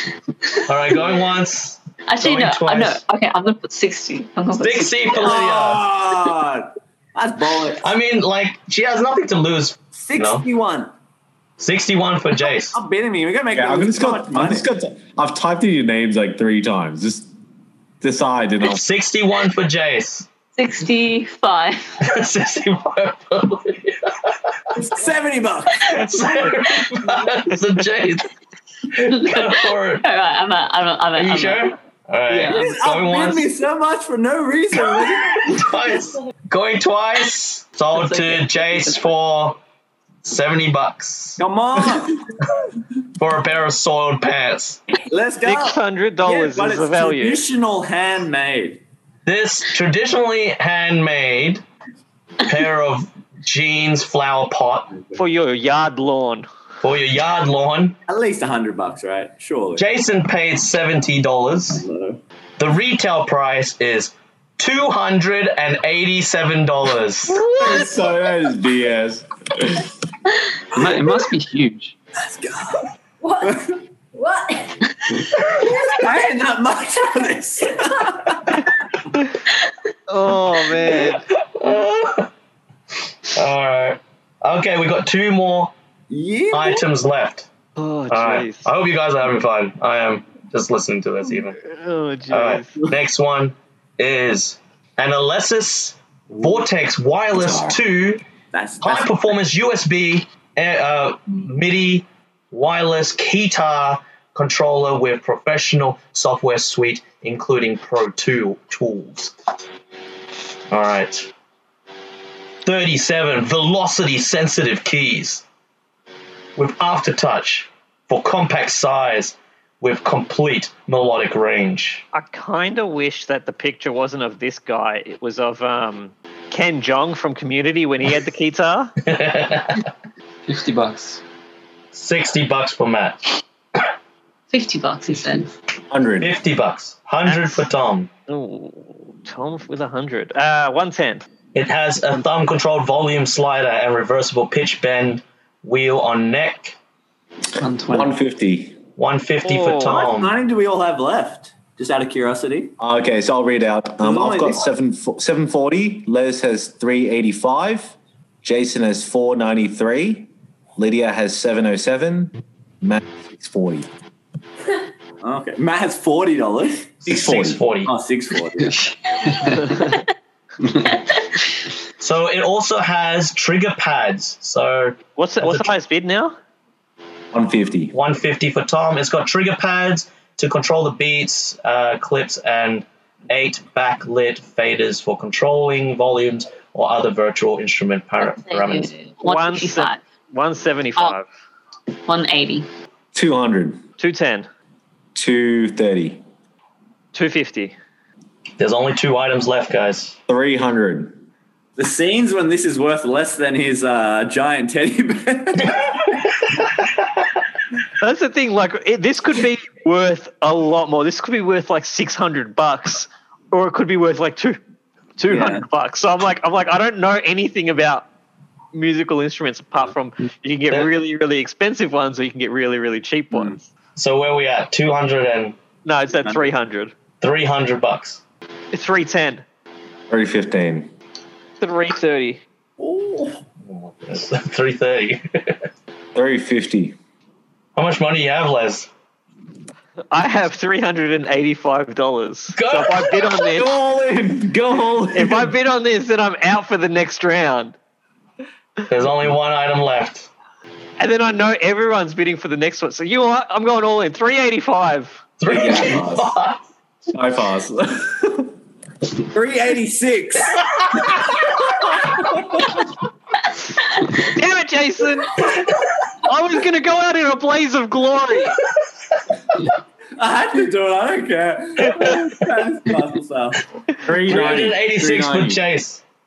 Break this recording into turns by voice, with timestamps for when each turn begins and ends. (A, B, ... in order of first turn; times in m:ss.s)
0:00.7-0:03.0 A
0:02.1-0:05.4 B
0:04.6-0:05.9 A
0:05.2-0:07.9 C
0:07.8-0:10.4 A
0:10.0-0:10.9 C
0:11.6-0:12.8 A
0:12.6-0:14.7 C
0:13.5-0:17.3 D
0:18.0-0:18.8 D
0:18.6-0:20.3 A
0:20.6-0:22.0 B
0:22.0-0:24.8 A
0:24.7-0:26.0 C
0:25.8-0:28.3 A
0:28.9-0:30.1 A
0:29.0-0:31.7 B
0:31.2-0:33.5 A
0:32.4-0:35.6 C
0:34.9-0:39.6 A
0:37.9-0:39.0 B
0:40.2-0:41.4 A
0:41.4-0:42.2 C
0:43.2-0:44.8 A
0:45.0-0:48.8 C
0:45.4-0:47.4 E
0:49.3-0:51.6 A
0:52.4-0:55.0 A
0:55.1-0:56.5 E
0:56.8-0:58.0 A
0:58.1-0:59.9 C
0:59.8-1:01.8 A
1:01.7-1:02.2 C
1:02.6-1:07.4 A
1:07.5-1:09.9 D
1:10.7-1:12.0 F
1:12.2-1:12.9 C
1:13.4-1:13.8 C
1:15.4-1:18.7 C
1:20.1-1:21.2 E
1:20.9-1:22.3 A
1:23.2-1:25.7 A
1:26.1-1:26.8 C
1:26.5-1:27.5 A
1:27.8-1:28.7 E
1:28.1-1:31.6 A
1:31.6-1:32.8 E
1:32.3-1:38.2 A
1:37.3-1:37.8 D
1:38.5-1:39.4 C
1:38.8-1:49.4 A
1:50.7-1:51.3 A
1:52.6-1:55.4 A
1:56.6-2:02.0 A
2:02.1-2:09.0 E
2:09.0-2:09.8 A
2:10.5-2:11.2 F
2:11.9-2:13.4 A
2:14.5-2:15.5 B
2:15.9-2:16.3 D
2:16.2-2:18.1 A
2:17.2-2:17.7 E
2:18.3-2:21.2 E
2:21.5-2:26.8 A
2:27.6-2:28.2 F
2:27.9-2:28.8 D
2:29.0-2:30.4 A
2:29.4-2:30.1 E
2:29.8-2:32.7 C
2:32.8-2:43.9 D
2:34.0-2:34.7 C
2:45.2-2:47.0 C
2:47.1-2:47.6 D
2:47.1-2:47.9 A
2:47.9-2:48.8 C
2:48.6-2:49.8 F
2:49.7-2:50.0 B
2:50.8-2:51.5 B
2:52.0-2:55.7 A
2:55.2-2:56.4 E
2:57.3-2:57.9 D
2:57.9-3:08.9 A
3:08.2-3:10.0 B
3:09.2-3:11.3 E
3:12.0-3:12.7 B
3:13.1-3:13.8 D
3:14.0-3:14.5 E
3:15.2-3:16.2 D
3:17.1-3:17.8 E
3:18.6-3:20.2 A
3:20.3-3:21.2 D
3:21.8-3:25.8 C
3:28.0-3:34.6 E
3:35.2-3:38.1 E
3:35.3-3:35.6 C
3:38.7-3:43.6 E
3:43.3-3:43.6 C
3:44.0-3:45.6 A
3:45.8-3:46.9 E
3:47.2-3:48.2 A
3:48.7-3:49.4 E
3:50.1-3:50.9 D
3:51.6-3:52.4 E
3:52.8-3:53.4 C
3:53.7-3:55.7 A
3:56.2-3:57.0 D
3:57.8-3:58.9 A
4:00.1-4:03.7 E
4:02.6-4:03.4 A
4:03.5-4:05.5 D
4:05.1-4:07.8 E
4:08.9-4:10.3 A
4:11.0-4:15.2 E
4:15.4-4:16.6 A
4:15.5-4:16.4 D
4:17.1-4:18.5 D
4:19.3-4:20.7 C
4:24.2-4:25.6 E
4:26.2-4:28.6 E
4:30.2-4:33.6 C
4:34.0-4:35.6 D
4:34.2-4:36.0 A